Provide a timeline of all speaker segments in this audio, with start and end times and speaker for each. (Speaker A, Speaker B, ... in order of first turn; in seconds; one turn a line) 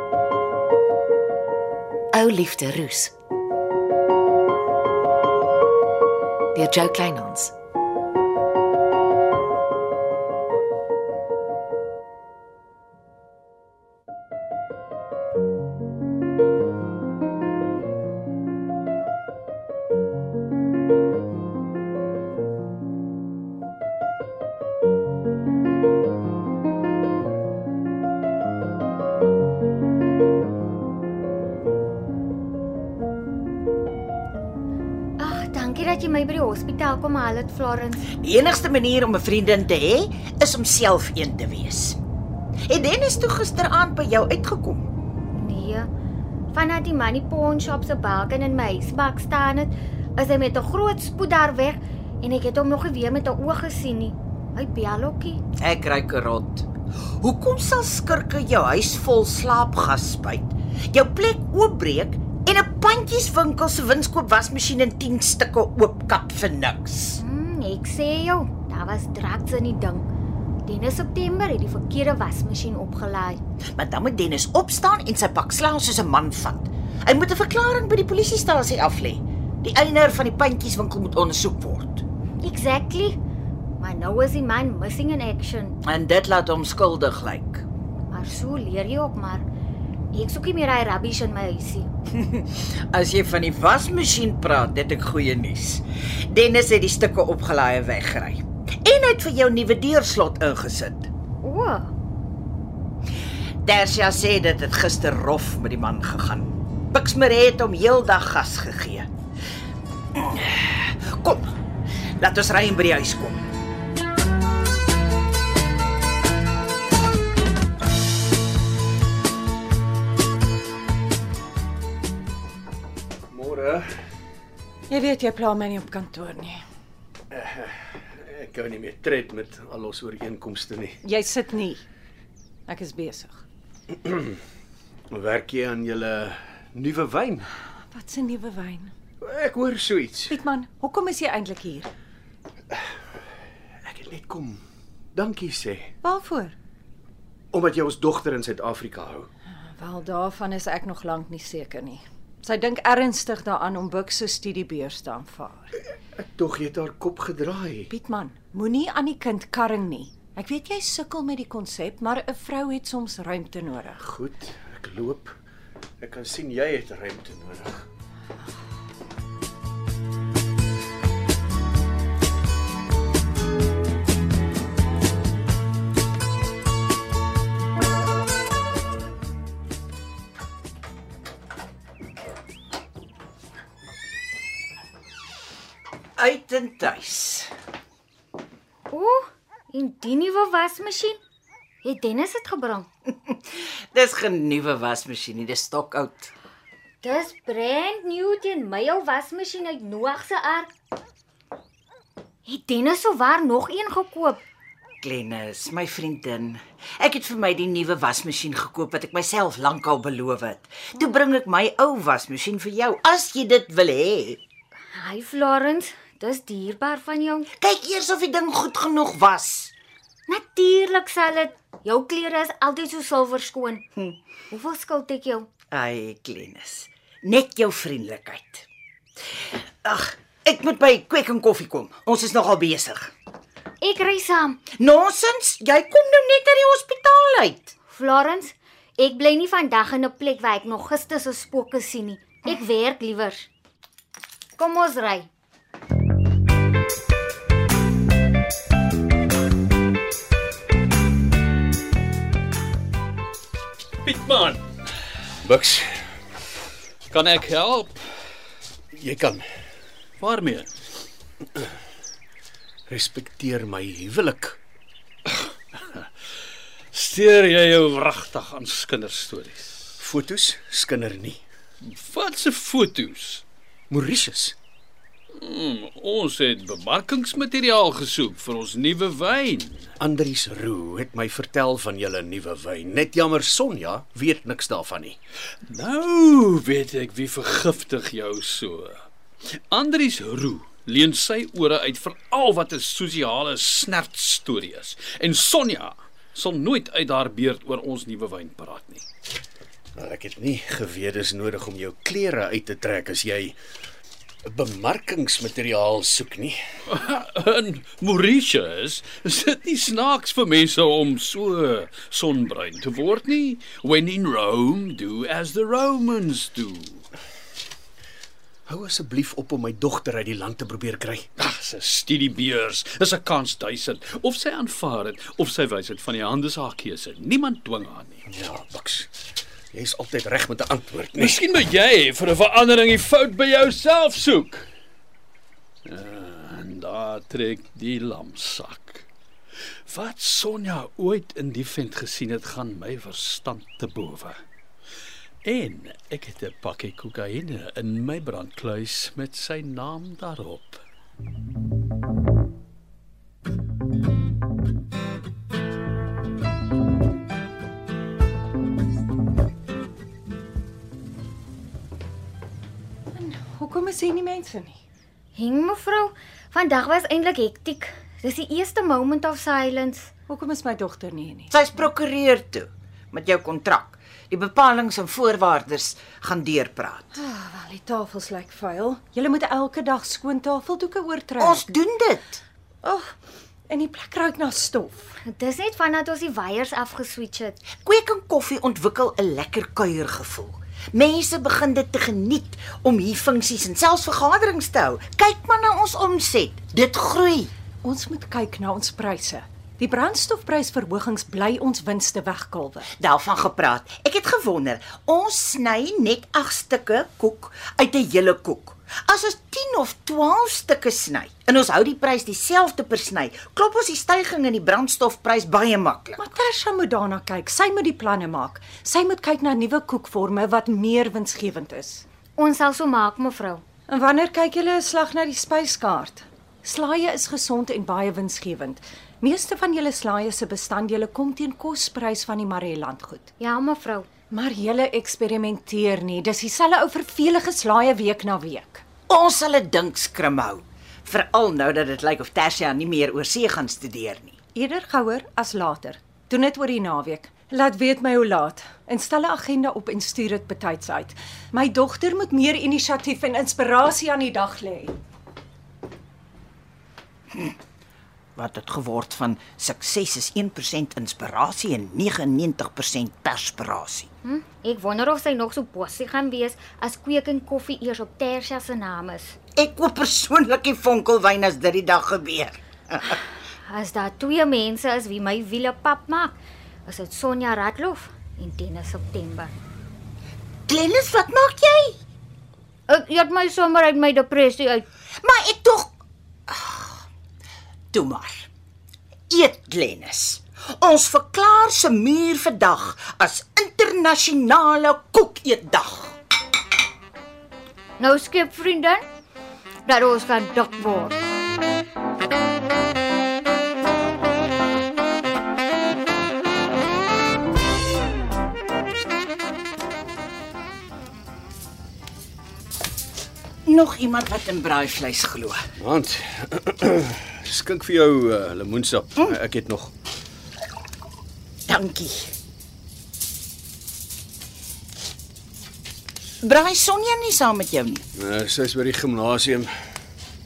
Speaker A: 2.1-3.1
Speaker A: 6.5-7.5
Speaker B: 35.2-38.1
Speaker C: 38.2-42.0
Speaker C: 42.7-44.9
Speaker B: 45.3-45.9
Speaker B: 46.5-55.4
Speaker C: 55.6-56.7
Speaker C: 57.2-67.2
Speaker B: 67.2-70.1
Speaker B: 70.7-73.4
Speaker C: 73.7-82.0
Speaker B: 82.4-83.2
Speaker B: 83.8-85.8
Speaker C: 85.8-87.7
Speaker B: 88.1-89.4
Speaker B: 90.1-91.9
Speaker C: 92.2-101.1
Speaker B: 101.4-101.9
Speaker C: 103.6-109.1
Speaker C: 110.1-111.5
Speaker C: 112.2-113.4
Speaker D: 123.3-123.9
Speaker E: 124.9-126.6
Speaker D: 127.3-131.0
Speaker E: 131.0-131.8
Speaker E: 132.7-133.4
Speaker D: 134.0-134.4
Speaker D: 135.1-137.5
Speaker E: 137.9-138.9
Speaker D: 139.2-140.4
Speaker E: 140.3-141.9
Speaker D: 143.8-144.6
Speaker D: 145.1-145.9
Speaker E: 146.0-146.6
Speaker D: 147.5-149.3
Speaker E: 149.7-155.7
Speaker D: 156.2-157.9
Speaker E: 157.9-164.0
Speaker D: 164.0-165.3
Speaker D: 166.0-167.8
Speaker C: 186.2-187.5
Speaker B: 188.9-191.2
Speaker B: 191.8-192.9
Speaker C: 193.3-196.3
Speaker B: 197.0-200.7
Speaker B: 202.4-204.4
Speaker C: 205.0-214.4
Speaker B: 214.9-217.5
Speaker C: 217.6-219.7
Speaker B: 220.3-223.8
Speaker B: 224.5-225.5
Speaker C: 225.7-228.7
Speaker C: 229.4-233.1
Speaker B: 233.8-234.6
Speaker C: 234.8-237.7
Speaker B: 237.9-243.5
Speaker B: 244.6-245.3
Speaker F: 254.0-254.6
Speaker D: 255.4-255.9
Speaker F: 257.1-258.0
Speaker D: 258.9-259.4
Speaker F: 260.2-260.7
Speaker D: 262.9-264.6
Speaker F: 265.3-266.1
Speaker F: 266.9-270.0
Speaker D: 270.0-271.4
Speaker F: 271.8-273.4
Speaker D: 273.9-274.6
Speaker F: 275.4-279.9
Speaker D: 280.0-285.2
Speaker F: 285.6-289.0
Speaker F: 289.7-299.0
Speaker D: 299.9-303.6
Speaker D: 304.5-306.6
Speaker F: 306.9-317.1
Speaker D: 318.6-321.3
Speaker F: 321.4-328.2
Speaker D: 328.3-329.1
Speaker D: 329.7-331.4
Speaker F: 331.2-334.7
Speaker F: 335.9-339.1
Speaker F: 339.9-344.4
Speaker F: 345.4-350.8
Speaker E: 363.1-364.8
Speaker B: 365.3-370.1
Speaker E: 370.3-371.5
Speaker C: 371.5-377.1
Speaker E: 377.1-381.6
Speaker C: 381.4-382.4
Speaker E: 382.8-383.1
Speaker E: 383.7-385.1
Speaker B: 385.2-387.6
Speaker C: 387.8-397.5
Speaker E: 397.8-402.9
Speaker C: 402.9-416.3
Speaker E: 416.2-422.0
Speaker B: 422.4-423.6
Speaker E: 423.9-433.3
Speaker B: 433.4-434.1
Speaker E: 434.3-438.8
Speaker C: 439.1-444.4
Speaker E: 444.5-454.9
Speaker C: 458.4-464.1
Speaker B: 464.2-469.4
Speaker C: 469.6-473.2
Speaker B: 473.7-479.5
Speaker C: 480.7-481.9
Speaker B: 482.9-484.8
Speaker C: 485.2-486.0
Speaker C: 486.5-487.0
Speaker C: 487.9-488.5
Speaker C: 489.3-496.1
Speaker B: 498.0-499.0
Speaker B: 499.9-501.2
Speaker C: 513.6-515.6
Speaker D: 515.8-519.9
Speaker C: 521.7-522.3
Speaker C: 526.4-528.0
Speaker D: 528.1-529.7